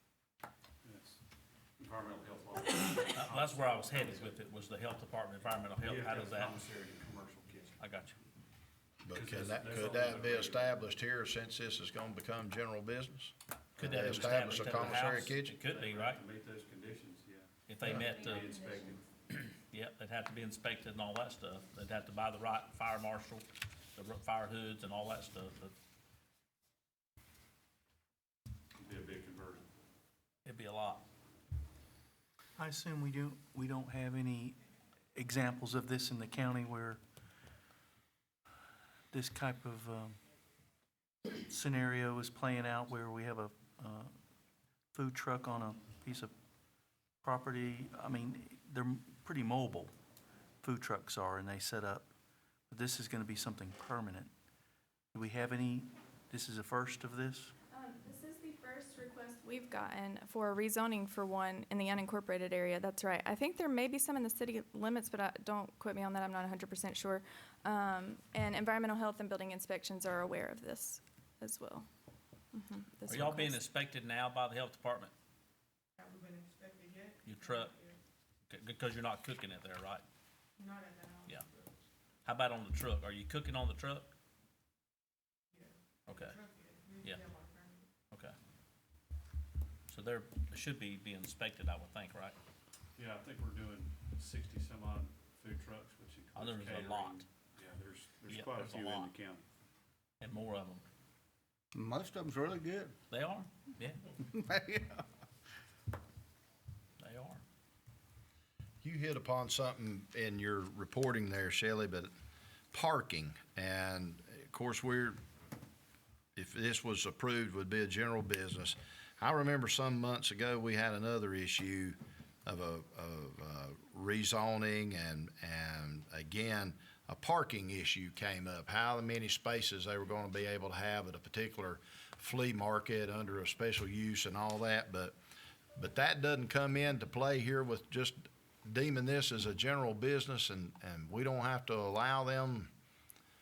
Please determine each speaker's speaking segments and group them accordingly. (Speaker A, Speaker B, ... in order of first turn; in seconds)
Speaker A: 0.8-1.2, 1.8-4.2, 5.9-7.7, 9.1-10.6, 13.8-15.0, 15.7-17.5, 18.3-19.0, 28.8-29.6, 93.0-99.4
Speaker B: 3.0-6.6, 7.8-8.1, 13.8-16.2, 17.7-18.6, 19.3-25.7, 30.4-31.0, 73.1-75.1, 77.2-77.8, 78.5-80.0, 82.2-84.1, 86.1-86.4, 87.0-87.3, 89.9-92.3, 96.3-97.2, 98.3-99.1, 100.2-100.8, 103.1-104.0, 107.0-107.4
Speaker C: 9.0-15.6, 17.8-18.2, 108.8-112.1, 112.7-115.2, 116.3-135.1, 135.8-142.7
Speaker D: 18.0-18.7, 76.0-78.0, 80.6-81.7, 85.5-87.8
Speaker E: 32.6-34.6, 35.1-37.0, 39.1-40.2, 41.5-44.1, 44.9-46.3, 47.2-49.9, 50.6-52.1, 52.7-54.3, 55.1-57.5
Speaker F: 57.7-71.8, 72.5-73.6
Speaker G: 101.7-102.9, 104.3-105.0